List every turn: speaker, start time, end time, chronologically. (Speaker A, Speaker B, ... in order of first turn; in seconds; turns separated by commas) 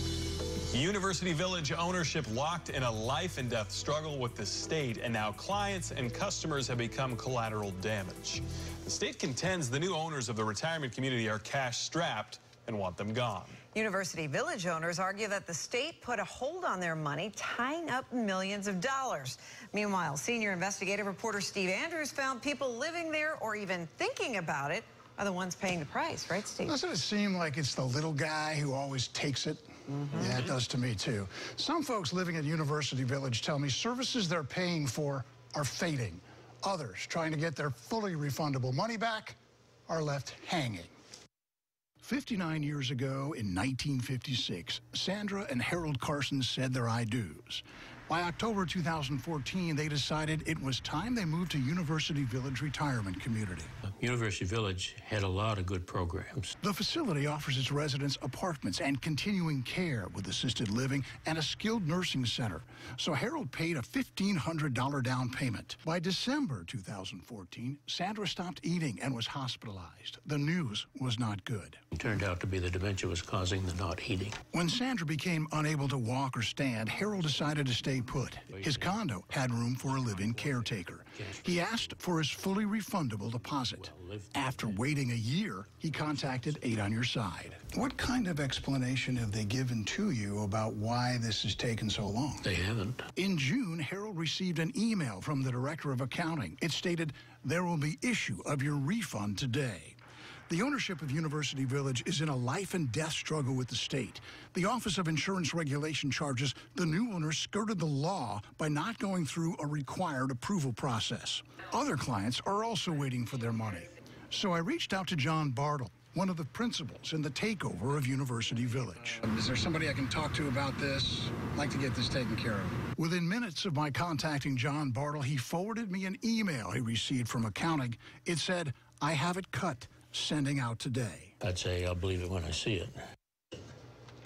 Speaker A: 0.7-13.6, Speaker B: 13.7-26.8, Speaker C: 26.6-39.4, Speaker B: 29.9-30.3, Speaker A: 30.1-30.6, Speaker C: 39.9-40.9, Speaker C: 42.0-53.7, Speaker D: 53.9-56.5, Speaker C: 56.6-71.8, Speaker D: 71.9-74.4, Speaker C: 74.5-92.5, Speaker D: 78.5-82.0, Speaker D: 83.5-84.8, Speaker D: 85.9-86.7, Speaker D: 92.4-93.1, Speaker C: 93.2-100.0, Speaker C: 100.5-131.3, Speaker D: 131.4-132.9